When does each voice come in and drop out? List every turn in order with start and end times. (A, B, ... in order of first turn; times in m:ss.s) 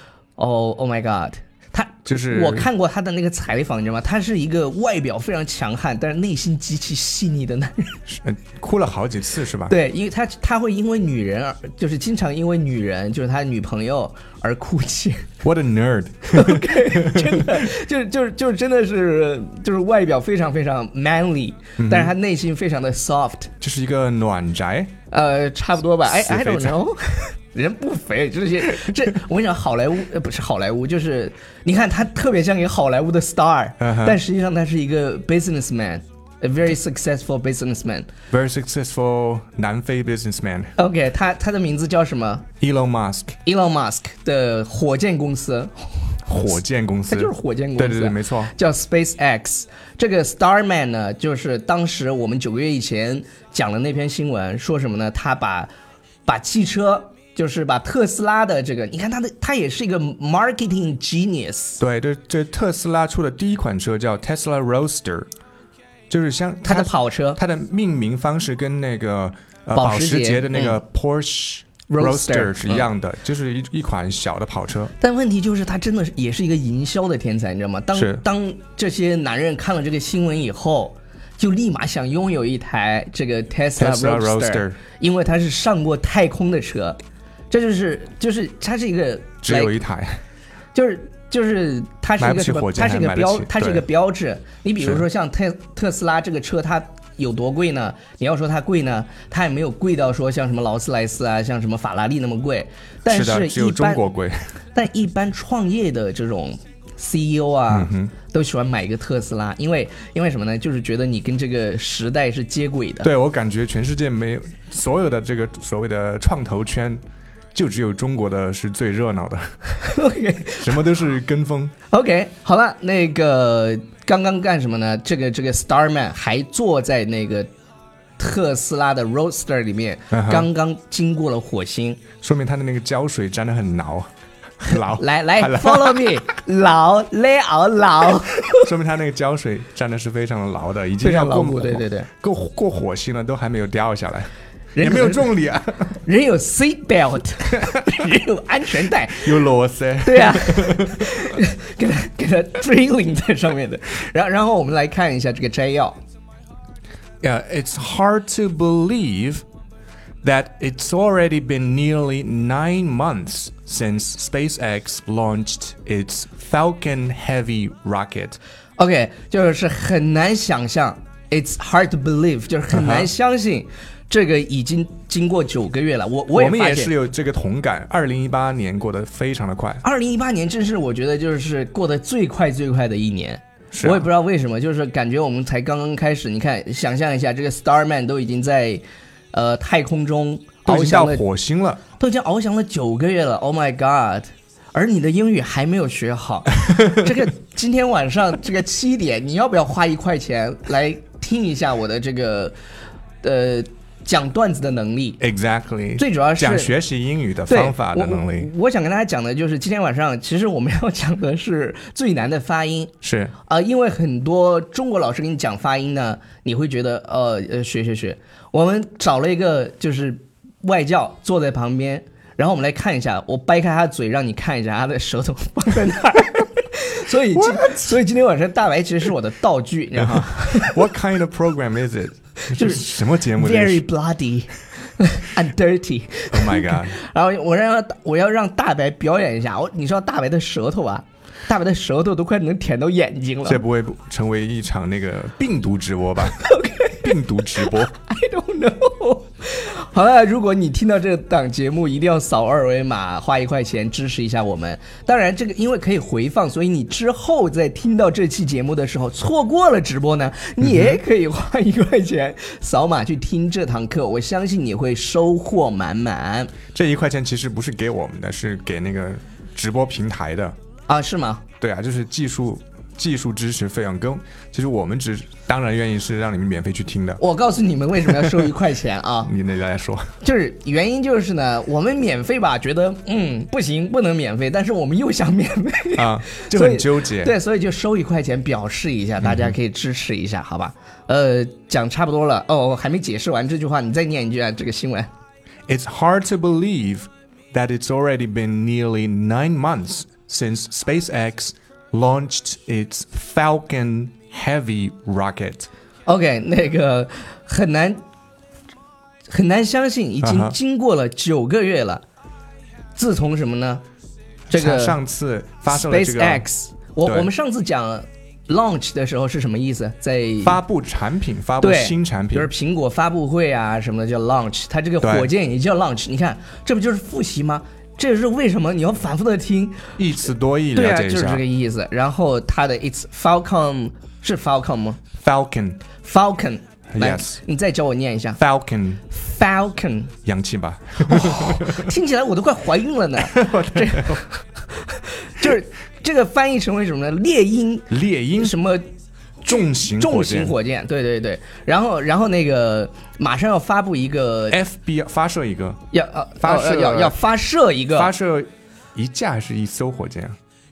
0:00.4-0:08.0 A
0:02.1-0:02.7 B
0:08.1-0:09.7 B
0:09.7-0:15.2 A
0:15.4-0:17.6 B
0:16.3-0:23.5 A
0:21.8-0:22.1 B
0:23.6-0:24.9 B
0:25.1-0:38.1 A
0:26.0-0:26.8 B
0:33.8-0:34.2 B
0:38.3-0:40.7 B
0:40.8-0:42.4 A
0:42.6-0:43.4 B
0:43.4-0:46.2 A
0:46.3-0:48.5 B
0:47.1-0:55.7 A
0:56.2-1:01.8 A
1:01.8-1:05.3 B
1:06.1-1:14.9 B
1:06.6-1:07.4 A
1:09.7-1:10.8 A
1:11.9-1:12.9 A
1:15.0-1:27.0 A
1:17.9-1:18.2 B
1:23.8-1:24.8 B
1:27.5-1:29.7 A
1:29.4-1:30.2 B
1:30.7-1:44.0 A
1:32.2-1:33.8 B
1:43.0-1:44.5 B
1:44.7-1:53.1 A
1:47.7-1:48.1 B
1:53.0-1:57.0 B
1:57.5-1:59.5 B
1:59.8-2:00.8 A
2:00.6-2:01.7 B
2:01.9-2:07.5 A
2:08.2-2:12.0 A
2:10.1-2:10.5 B
2:12.2-2:14.1 B
2:14.6-2:16.2 B
2:14.6-2:18.7 A
2:18.6-2:26.0 B
2:21.0-2:22.1 A
2:24.8-2:25.3 A
2:26.0-2:29.4 A
2:29.2-2:31.1 B
2:30.0-2:36.0 A
2:37.2-2:39.4 B
2:40.2-2:48.4 B
2:48.8-2:56.9 A
2:52.7-2:53.1 B
2:56.3-2:59.8 B
2:59.8-3:11.2 A
3:03.7-3:04.1 B
3:10.6-3:11.8 B
3:12.0-3:22.5 A
3:23.2-3:25.2 A
3:25.2-3:28.5 B
3:26.0-3:26.7 A
3:27.5-3:50.8 A
3:33.0-3:33.3 B
3:47.3-3:48.0 B
3:50.0-3:53.8 B
3:52.5-4:03.6 A
3:56.3-3:57.0 B
4:03.4-4:07.9 B
4:06.2-4:26.5 A
4:20.6-4:21.0 B
4:26.7-4:30.5 B
4:30.9-4:31.4 A
4:31.6-4:37.2 B
4:37.2-4:39.3 A
4:38.0-4:38.5 B
4:39.2-4:40.1 B
4:40.2-4:55.1 A
4:46.0-4:47.3 B
4:49.2-4:49.5 B
4:55.7-5:05.7 B
5:06.0-5:08.0 A
5:09.3-5:12.0 A
5:10.2-5:10.6 B
5:13.0-5:13.8 A
5:14.5-5:15.0 A
5:14.5-5:16.4 B
5:15.7-5:20.6 A
5:20.4-5:22.5 B
5:21.6-5:29.9 A
5:25.0-5:25.3 B
5:30.0-5:31.4 B
5:30.7-5:35.0 A
5:35.2-5:35.8 B
5:36.0-5:38.4 A
5:36.9-5:37.4 B
5:38.4-5:39.0 B
5:39.1-5:40.1 A
5:40.2-5:41.9 B
5:41.1-5:48.9 A
5:43.2-5:44.2 B
5:47.9-5:48.5 B
5:49.4-5:50.5 B
5:49.5-5:54.6 A
5:54.5-5:55.8 B
5:55.9-5:58.1 A
5:56.4-5:57.2 B
5:57.9-6:00.4 B